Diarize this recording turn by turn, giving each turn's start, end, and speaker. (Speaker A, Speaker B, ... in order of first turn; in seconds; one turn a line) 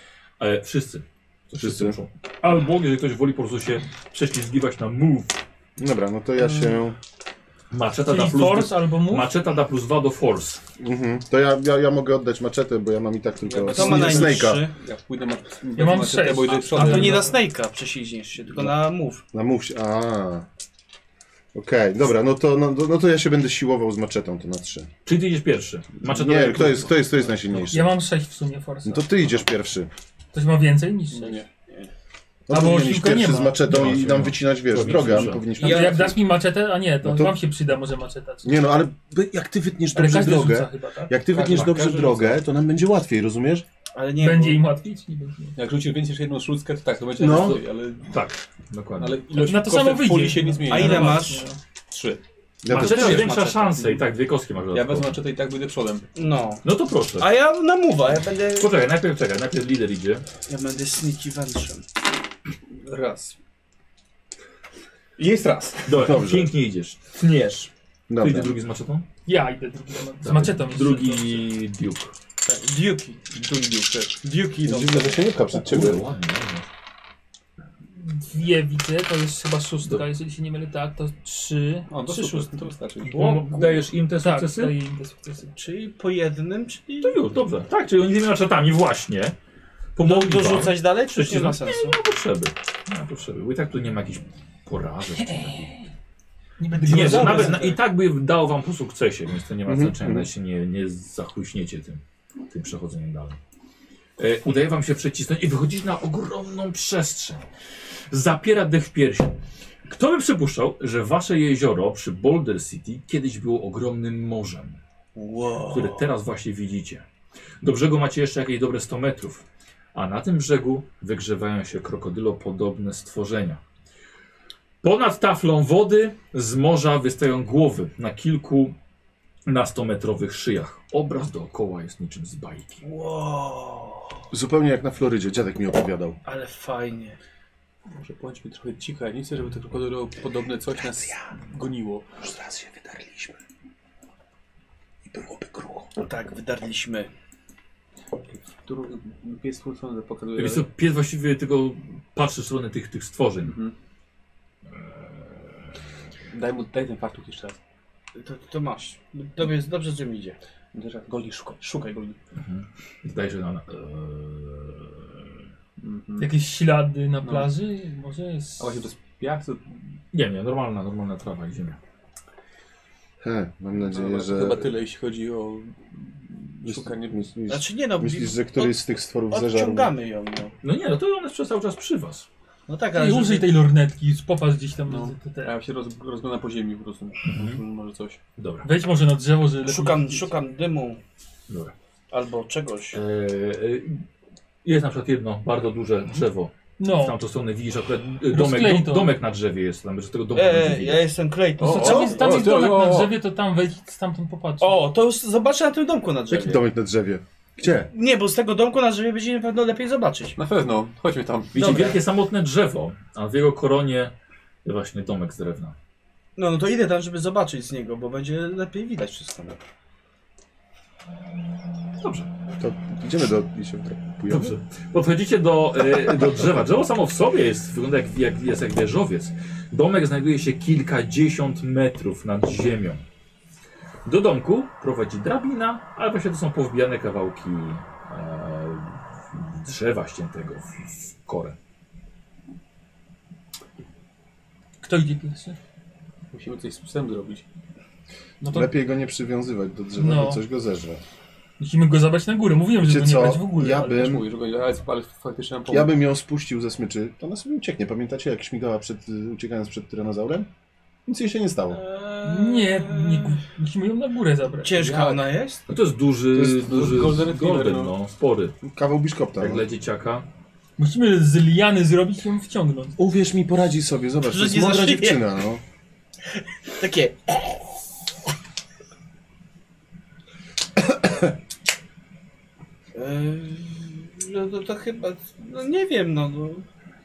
Speaker A: 0.4-5.4
Speaker B: 1.6-2.0
Speaker B: 5.8-7.0
Speaker A: 7.7-10.6
Speaker C: 8.0-9.3
Speaker B: 10.8-14.6
Speaker D: 13.4-17.3
Speaker E: 13.7-14.7
Speaker C: 15.8-17.4
Speaker E: 16.7-19.2
Speaker B: 19.3-20.5
Speaker B: 21.5-24.9
Speaker A: 25.1-27.3
Speaker B: 26.0-27.9
Speaker C: 27.7-29.1
Speaker B: 28.8-29.9
Speaker C: 30.3-31.4
Speaker D: 31.1-31.5
Speaker B: 32.5-36.2
Speaker C: 32.5-33.6
Speaker A: 33.6-35.5
Speaker E: 35.6-36.0
Speaker C: 35.6-38.6
Speaker B: 37.0-37.3
Speaker B: 38.4-43.6
Speaker C: 39.9-41.1
Speaker D: 41.3-42.4
Speaker E: 43.9-44.7
Speaker C: 44.2-45.5
Speaker D: 45.5-48.1
Speaker B: 47.2-47.6
Speaker A: 47.2-49.2
Speaker D: 49.0-51.4
Speaker C: 49.4-51.6
Speaker E: 50.7-51.4
Speaker D: 51.9-52.2
Speaker B: 52.6-53.3
Speaker A: 52.7-55.1
Speaker E: 52.7-53.8
Speaker D: 52.9-54.0
Speaker D: 54.7-56.1
Speaker E: 56.1-56.6
Speaker A: 56.6-57.3
Speaker E: 57.2-58.7
Speaker A: 58.6-60.2
Speaker E: 60.5-61.8
Speaker D: 62.8-63.4
Speaker D: 65.2-66.0
Speaker A: 65.8-69.1
Speaker B: 65.9-66.5
Speaker B: 68.1-68.5
Speaker C: 69.2-71.5
Speaker A: 70.2-72.1
Speaker E: 72.5-73.2
Speaker D: 73.2-74.2
Speaker E: 74.2-75.3
Speaker B: 74.6-76.0
Speaker A: 75.5-76.7
Speaker C: 78.0-82.7
Speaker D: 81.9-83.9
Speaker A: 83.0-84.7
Speaker C: 84.2-85.5
Speaker E: 85.5-87.2
Speaker A: 87.0-89.3
Speaker A: 90.0-95.7
Speaker E: 90.0-92.0
Speaker C: 95.2-95.7
Speaker C: 96.6-97.5
Speaker D: 96.7-97.6
Speaker E: 96.8-97.8
Speaker A: 96.8-103.4
Speaker B: 99.7-100.3
Speaker A: 104.2-107.4
Speaker A: 108.1-109.3
Speaker A: 109.9-114.8
Speaker E: 115.1-116.0
Speaker A: 115.7-117.0
Speaker A: 117.6-123.6
Speaker A: 124.8-128.8
Speaker A: 129.4-132.8
Speaker E: 132.8-134.2
Speaker B: 134.3-136.2
Speaker E: 136.2-137.2
Speaker D: 137.9-142.1
Speaker B: 142.2-143.3
Speaker B: 145.1-145.6
Speaker E: 146.0-147.1
Speaker D: 148.3-150.7
Speaker A: 150.3-153.6
Speaker D: 153.4-153.7
Speaker D: 156.3-157.6
Speaker E: 158.2-160.4
Speaker D: 160.7-162.2
Speaker A: 162.3-165.1
Speaker D: 165.8-166.3
Speaker C: 166.2-168.7
Speaker D: 167.2-167.5
Speaker D: 168.6-169.9
Speaker A: 170.1-171.8
Speaker B: 173.2-174.7
Speaker D: 173.7-177.2
Speaker B: 176.6-179.9
Speaker E: 177.5-178.8
Speaker E: 179.3-180.5
Speaker A: 180.6-182.3
Speaker E: 182.7-183.6
Speaker C: 182.9-185.5
Speaker D: 184.9-188.2
Speaker A: 187.2-187.6
Speaker A: 188.4-188.7
Speaker C: 188.6-190.3
Speaker E: 189.6-191.0
Speaker E: 192.1-193.0
Speaker A: 192.9-194.0
Speaker A: 194.6-201.1
Speaker C: 196.8-197.2
Speaker C: 198.3-199.2
Speaker E: 200.3-202.4
Speaker D: 201.6-203.1
Speaker C: 201.6-204.8
Speaker E: 204.6-206.6
Speaker B: 206.3-207.9
Speaker E: 207.9-210.4
Speaker D: 210.3-211.6
Speaker A: 211.5-214.1
Speaker C: 211.6-212.0
Speaker E: 211.6-212.0
Speaker A: 214.6-215.7
Speaker E: 216.3-219.6
Speaker A: 222.0-222.3
Speaker B: 222.6-224.5
Speaker A: 224.3-233.0
Speaker A: 234.0-241.6
Speaker C: 244.8-245.6
Speaker D: 246.3-247.4
Speaker C: 248.4-248.7
Speaker B: 248.4-251.0
Speaker C: 250.0-250.4
Speaker C: 251.6-254.1
Speaker B: 252.8-254.3
Speaker D: 253.9-255.9
Speaker B: 255.7-260.5
Speaker B: 261.1-261.8
Speaker E: 261.7-263.4
Speaker C: 262.2-264.8
Speaker E: 264.6-265.6
Speaker D: 264.8-265.3
Speaker A: 265.7-268.5
Speaker D: 266.3-267.9
Speaker B: 268.6-269.6
Speaker A: 269.4-270.2
Speaker C: 270.8-273.0
Speaker B: 273.0-275.6
Speaker E: 274.3-275.2
Speaker E: 276.8-277.7
Speaker B: 280.8-281.3
Speaker E: 282.9-286.6